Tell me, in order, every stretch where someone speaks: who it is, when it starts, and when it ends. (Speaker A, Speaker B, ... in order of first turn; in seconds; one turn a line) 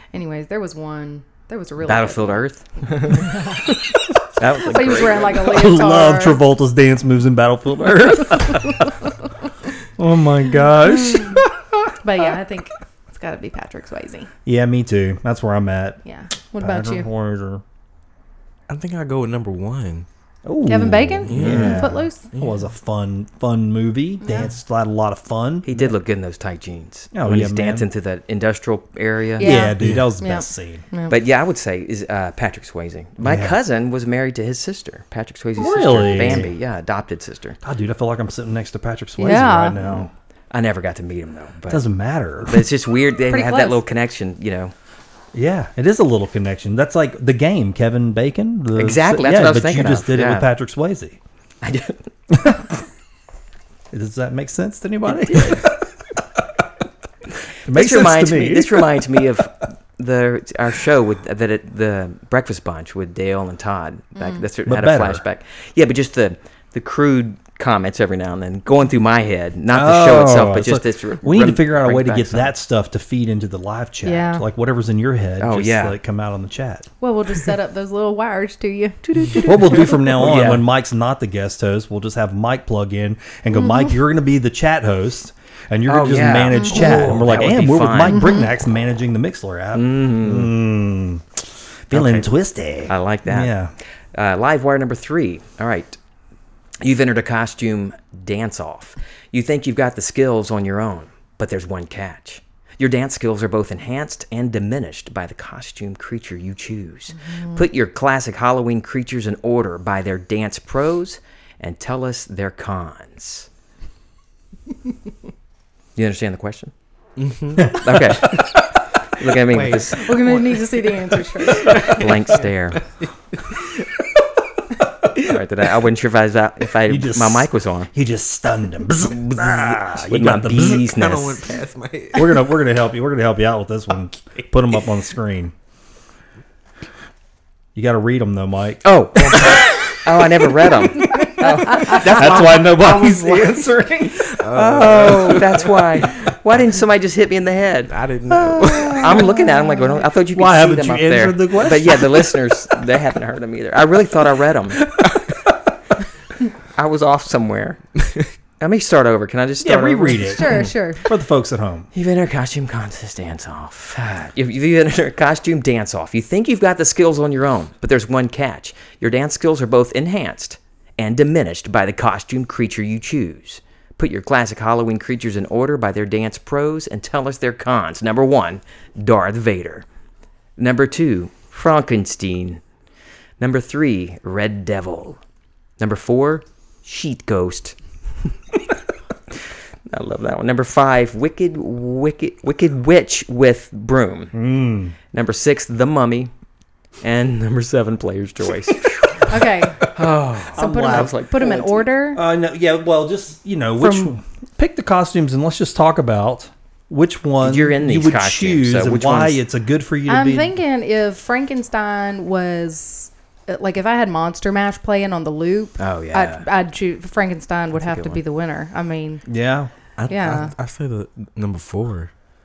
Speaker A: 0.1-2.5
Speaker B: 1.8-3.8
Speaker B: 4.4-5.4
Speaker A: 4.5-6.4
Speaker C: 5.3-9.0
Speaker C: 10.0-11.4
Speaker A: 12.0-14.3
Speaker C: 14.5-16.0
Speaker A: 16.1-17.1
Speaker C: 16.6-17.6
Speaker D: 18.7-20.1
Speaker C: 20.4-25.9
Speaker A: 20.6-22.2
Speaker D: 21.3-22.6
Speaker B: 21.4-21.8
Speaker A: 24.2-24.5
Speaker B: 25.6-29.6
Speaker C: 27.1-27.9
Speaker A: 29.4-31.1
Speaker C: 29.4-30.9
Speaker B: 31.1-37.6
Speaker C: 33.2-33.6
Speaker C: 35.6-36.5
Speaker C: 37.6-40.1
Speaker A: 39.2-39.8
Speaker B: 39.8-41.8
Speaker C: 41.7-42.7
Speaker B: 42.5-44.7
Speaker A: 43.3-43.8
Speaker C: 45.3-51.2
Speaker B: 48.8-50.5
Speaker B: 51.6-52.0
Speaker C: 52.3-52.6
Speaker C: 53.9-55.8
Speaker B: 55.3-55.6
Speaker C: 57.7-59.0
Speaker B: 57.7-72.5
Speaker A: 64.2-64.4
Speaker C: 64.7-65.2
Speaker C: 69.7-76.9
Speaker A: 74.0-74.4
Speaker B: 75.4-76.0
Speaker A: 77.0-79.8
Speaker B: 79.1-80.7
Speaker C: 79.4-93.7
Speaker B: 85.9-88.3
Speaker A: 86.5-87.0
Speaker A: 88.1-88.5
Speaker B: 89.7-90.5
Speaker B: 91.9-92.3
Speaker B: 92.9-93.5
Speaker B: 94.1-96.0
Speaker B: 96.8-113.5
Speaker B: 116.0-116.7
Speaker D: 117.2-118.3
Speaker B: 117.6-118.7
Speaker B: 119.2-120.2
Speaker D: 119.5-120.6
Speaker A: 120.0-121.9
Speaker D: 121.5-122.8
Speaker B: 121.8-122.8
Speaker D: 123.4-123.8
Speaker B: 125.2-127.9
Speaker C: 126.9-130.9
Speaker B: 129.1-131.4
Speaker D: 130.8-132.5
Speaker C: 132.1-135.5
Speaker C: 137.8-139.6
Speaker B: 138.8-142.5
Speaker D: 141.0-146.2
Speaker C: 141.2-144.4
Speaker B: 144.6-147.9
Speaker D: 147.9-149.2
Speaker C: 148.5-149.3
Speaker B: 149.0-155.0
Speaker C: 150.3-152.4
Speaker B: 156.8-158.0
Speaker B: 158.6-160.6
Speaker C: 159.6-161.9
Speaker A: 160.3-161.1
Speaker B: 161.9-179.8
Speaker B: 180.6-182.6
Speaker B: 183.4-185.2
Speaker B: 185.8-187.8
Speaker B: 189.9-194.3
Speaker C: 194.3-195.0
Speaker B: 195.1-196.3
Speaker B: 197.0-199.4
Speaker A: 199.3-199.8
Speaker B: 199.9-201.8
Speaker C: 200.5-210.5
Speaker A: 200.6-202.2
Speaker A: 203.8-204.1
Speaker B: 207.4-209.4
Speaker A: 210.1-219.2
Speaker B: 215.8-216.5
Speaker B: 217.7-218.2
Speaker C: 219.3-219.7
Speaker D: 220.0-222.1
Speaker A: 220.1-220.5